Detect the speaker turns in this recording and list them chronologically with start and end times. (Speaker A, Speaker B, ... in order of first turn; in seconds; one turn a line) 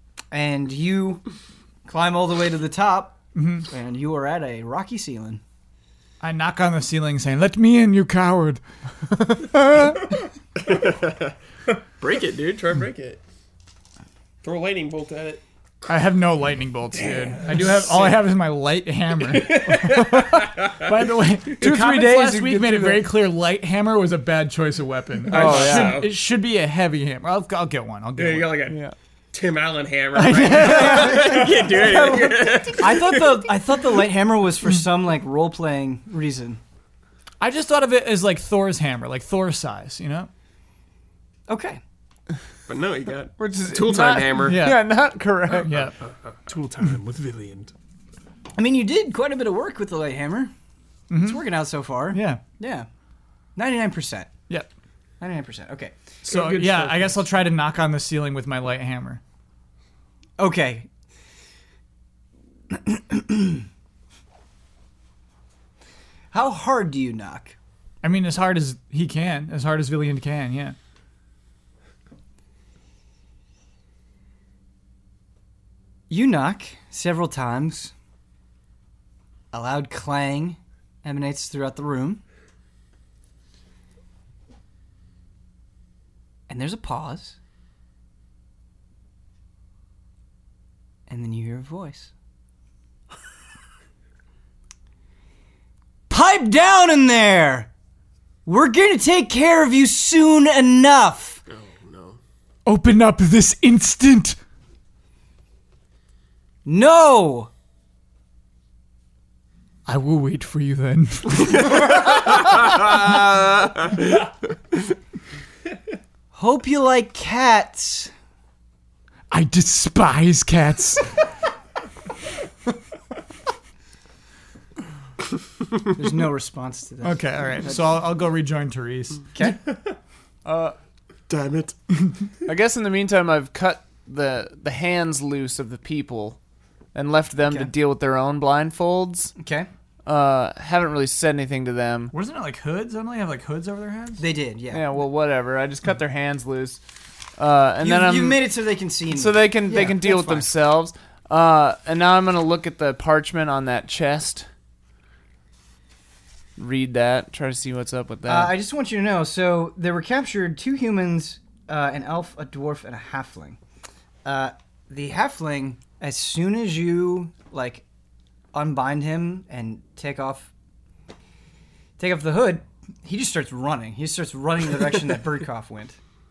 Speaker A: 0.3-1.2
Speaker A: 1.9-5.4
Speaker B: 3.4-3.7
Speaker B: 6.2-10.0
Speaker C: 10.6-11.3
Speaker C: 12.0-13.2
Speaker C: 14.4-15.4
Speaker B: 15.9-28.6
Speaker C: 16.9-18.2
Speaker C: 19.3-20.9
Speaker D: 21.6-23.1
Speaker C: 25.2-26.2
Speaker D: 25.3-26.0
Speaker C: 28.2-28.8
Speaker D: 28.7-28.9
Speaker C: 29.3-33.5
Speaker B: 30.1-32.7
Speaker A: 32.8-36.6
Speaker B: 37.4-40.3
Speaker A: 41.5-41.8
Speaker C: 42.7-44.6
Speaker D: 43.4-45.7
Speaker B: 44.4-44.9
Speaker B: 45.6-46.0
Speaker E: 46.5-47.7
Speaker A: 48.6-50.5
Speaker B: 51.1-51.5
Speaker A: 51.1-52.9
Speaker B: 52.1-52.4
Speaker A: 53.6-54.3
Speaker A: 55.2-56.0
Speaker B: 56.2-59.2
Speaker E: 56.3-57.2
Speaker A: 60.4-60.9
Speaker A: 62.7-63.7
Speaker A: 66.3-67.6
Speaker B: 68.0-70.8
Speaker A: 76.1-77.9
Speaker A: 79.5-82.2
Speaker A: 86.5-87.4
Speaker A: 91.1-92.1
Speaker A: 96.1-97.7
Speaker A: 98.5-101.4
Speaker C: 101.5-102.2
Speaker B: 102.7-104.4
Speaker A: 106.7-107.5
Speaker B: 109.9-113.0
Speaker C: 111.8-114.3
Speaker A: 116.3-118.1
Speaker B: 119.3-121.3
Speaker A: 125.9-127.8
Speaker B: 127.0-129.3
Speaker A: 129.3-129.6
Speaker D: 130.4-130.8
Speaker C: 131.3-131.8
Speaker D: 132.5-136.4
Speaker D: 136.9-139.3
Speaker A: 137.4-137.7
Speaker A: 139.4-139.7
Speaker D: 140.1-142.1
Speaker B: 142.1-144.2
Speaker A: 144.2-144.8
Speaker D: 144.7-146.8
Speaker D: 147.4-148.4
Speaker A: 147.8-150.5
Speaker D: 149.1-154.5
Speaker D: 156.6-158.5
Speaker A: 158.3-163.6
Speaker A: 164.2-167.8
Speaker A: 168.5-170.5
Speaker A: 172.0-176.0